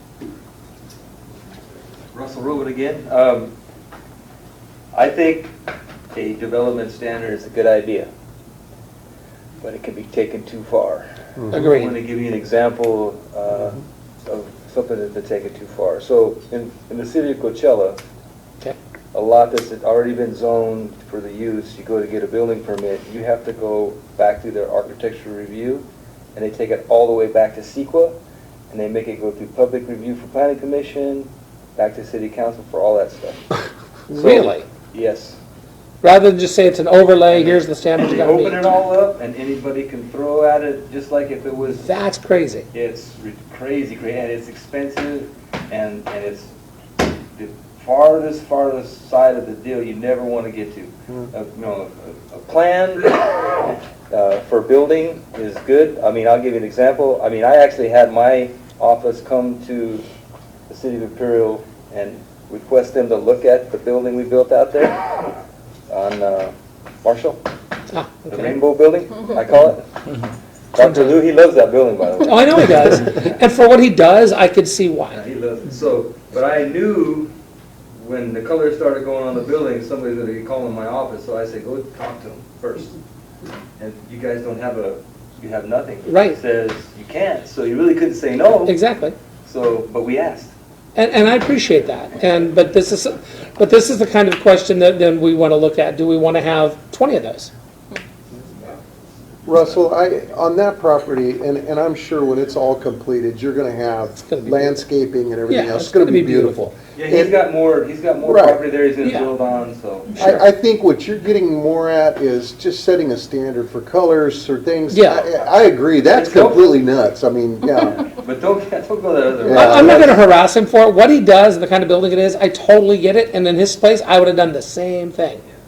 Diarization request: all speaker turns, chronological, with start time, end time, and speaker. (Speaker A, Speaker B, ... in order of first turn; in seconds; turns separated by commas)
Speaker A: 2.1-3.5, Speaker A: 4.9-5.5, Speaker A: 6.1-8.1, Speaker A: 9.6-18.0, Speaker B: 11.4-11.7, Speaker C: 11.5-11.9, Speaker A: 19.1-28.2, Speaker A: 28.7-33.4, Speaker C: 34.1-34.6, Speaker A: 34.1-35.4, Speaker C: 36.0-38.6, Speaker A: 37.3-41.8, Speaker C: 41.7-42.6, Speaker A: 42.7-46.5, Speaker A: 47.3-60.0, Speaker A: 60.7-65.0, Speaker A: 65.9-67.4, Speaker C: 67.9-68.5, Speaker A: 68.3-69.9, Speaker A: 70.7-73.0, Speaker C: 70.8-71.2, Speaker C: 72.2-75.2, Speaker A: 75.1-77.3, Speaker A: 77.9-82.9, Speaker A: 83.8-88.8, Speaker C: 86.1-86.4, Speaker C: 88.7-89.1, Speaker A: 89.4-90.5, Speaker C: 91.0-97.5, Speaker B: 99.4-107.4, Speaker C: 104.2-104.8, Speaker C: 105.5-106.7, Speaker A: 107.0-110.1, Speaker B: 108.2-108.6, Speaker C: 109.0-109.3, Speaker C: 110.1-110.4, Speaker B: 110.2-118.0, Speaker C: 114.9-115.3, Speaker A: 116.1-116.8, Speaker A: 118.0-120.2, Speaker C: 119.4-125.4, Speaker B: 119.5-120.2